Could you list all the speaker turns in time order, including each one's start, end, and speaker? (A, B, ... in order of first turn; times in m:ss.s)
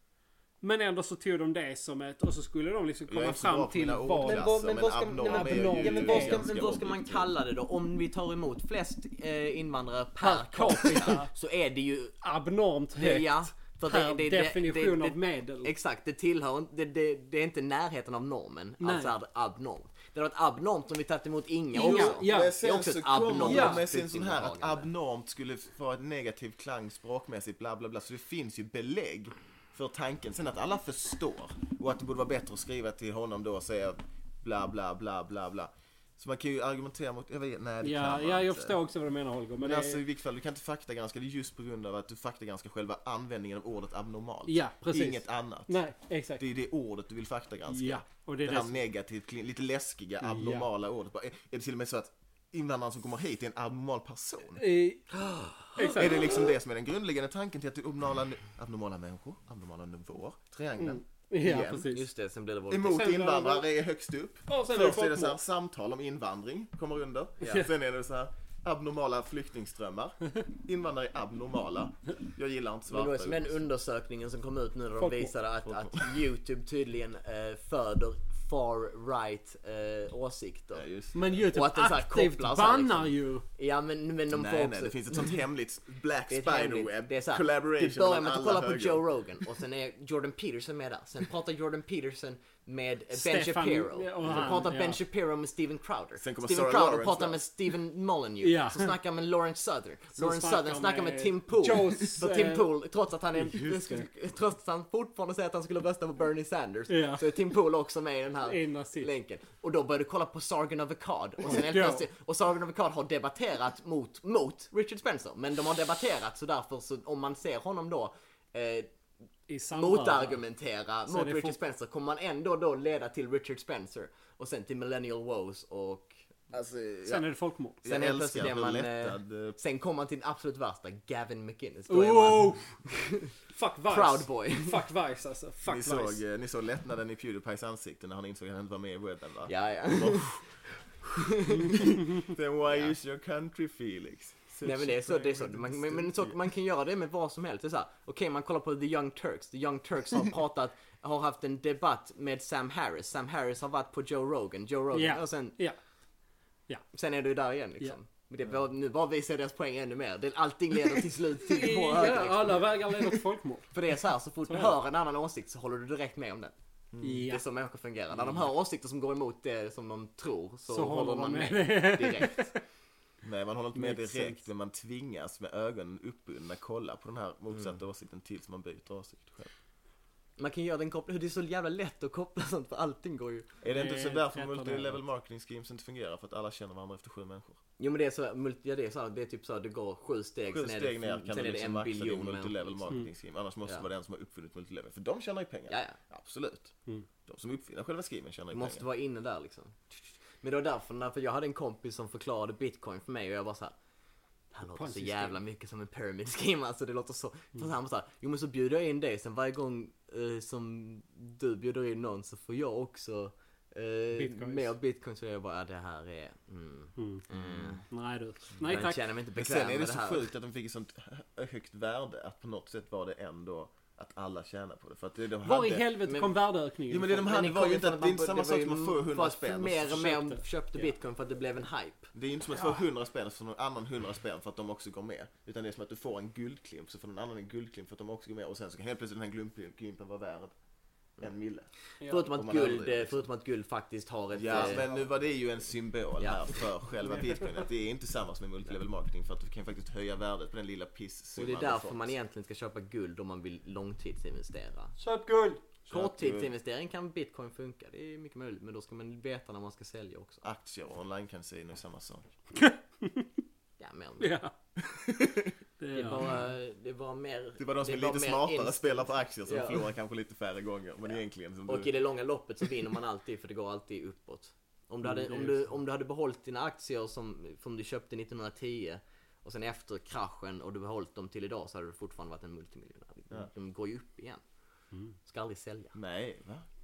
0:00.6-0:04.6 A
0:03.0-0:07.3 B
0:04.2-0:12.2 C
0:05.2-0:06.4 A
0:10.2-0:11.3 A
0:12.2-0:15.7 A
0:13.0-0:24.9 C
0:18.8-0:19.1 A
0:21.7-0:22.6 A
0:21.7-0:38.8 B
0:23.4-0:23.8 A
0:37.8-0:40.0 A
0:39.6-0:45.8 B
0:44.5-0:46.4 A
0:46.4-0:54.6 B
0:47.7-0:48.8 A
0:50.2-0:50.7 A
0:54.6-0:55.1 A
0:55.1-0:56.1 C
0:55.7-0:56.4 A
0:55.9-1:01.9 B
1:00.8-1:02.0 A
1:01.9-1:03.2 C
1:02.7-1:13.6 B
1:02.9-1:03.6 A
1:04.5-1:05.4 A
1:07.4-1:07.7 C
1:12.9-1:20.8 C
1:15.0-1:15.3 A
1:20.7-1:21.4 B
1:21.1-1:23.4 A
1:21.5-1:25.4 C
1:24.3-1:29.0 B
1:26.3-1:58.9 C
1:33.1-1:35.0 A
1:34.2-1:34.6 B
1:36.2-1:37.4 B
1:38.4-1:38.9 A
1:40.2-1:42.7 A
1:43.4-1:44.1 A
1:46.9-1:47.2 A
1:48.4-1:49.1 A
1:51.5-1:52.0 A
1:59.5-2:00.4 A
1:59.7-2:06.2 C
2:01.1-2:01.6 A
2:06.5-2:07.3 B
2:07.0-2:07.8 A
2:07.8-2:09.6 B
2:07.8-2:13.3 C
2:11.9-2:12.7 A
2:13.5-2:16.2 A
2:13.9-2:14.8 C
2:15.6-2:20.3 B
2:19.5-2:22.0 C
2:21.6-2:26.3 B
2:24.6-2:35.6 C
2:34.9-2:35.8 A
2:36.9-2:42.6 C
2:41.5-2:43.7 A
2:43.7-2:46.5 C
2:44.4-2:44.8 A
2:46.9-2:47.2 B
2:47.0-2:47.4 A
2:47.3-2:52.5 C
2:50.7-2:52.5 A
2:53.2-2:59.5 B
2:53.7-2:54.4 A
3:00.4-3:03.5 C
3:03.6-3:07.6 B
3:03.7-3:05.0 A
3:07.8-3:13.0 C
3:10.5-3:16.7 B
3:15.7-3:16.0 C
3:17.2-3:18.8 B
3:18.5-3:23.7 C
3:24.5-3:37.8 C
3:24.7-3:25.4 A
3:34.1-3:34.7 A
3:37.0-3:37.2 A
3:37.4-3:37.6 B
3:37.9-3:39.0 A
3:38.6-3:40.3 C
3:39.4-3:45.9 B
3:45.4-3:47.3 A
3:46.0-3:46.3 C
3:46.9-3:50.0 B
3:47.2-3:52.1 C
3:49.9-3:50.4 A
3:52.1-4:00.5 B
4:01.2-4:01.7 B
4:02.0-4:02.3 A
4:02.0-4:04.9 C
4:02.3-4:03.2 B
4:04.3-4:12.1 B
4:06.2-4:06.6 C
4:11.4-4:15.0 C
4:15.0-4:15.6 A
4:15.9-4:16.5 B
4:15.9-4:20.4 C
4:20.4-4:22.3 B
4:22.6-4:23.2 A
4:23.8-4:24.4 C
4:24.2-4:24.5 A
4:24.8-4:25.5 B
4:25.8-4:26.3 A
4:25.9-4:29.8 C
4:27.6-4:31.9 B
4:31.6-4:44.4 C
4:35.0-4:35.6 A
4:45.2-4:45.9 C
4:45.9-4:46.6 B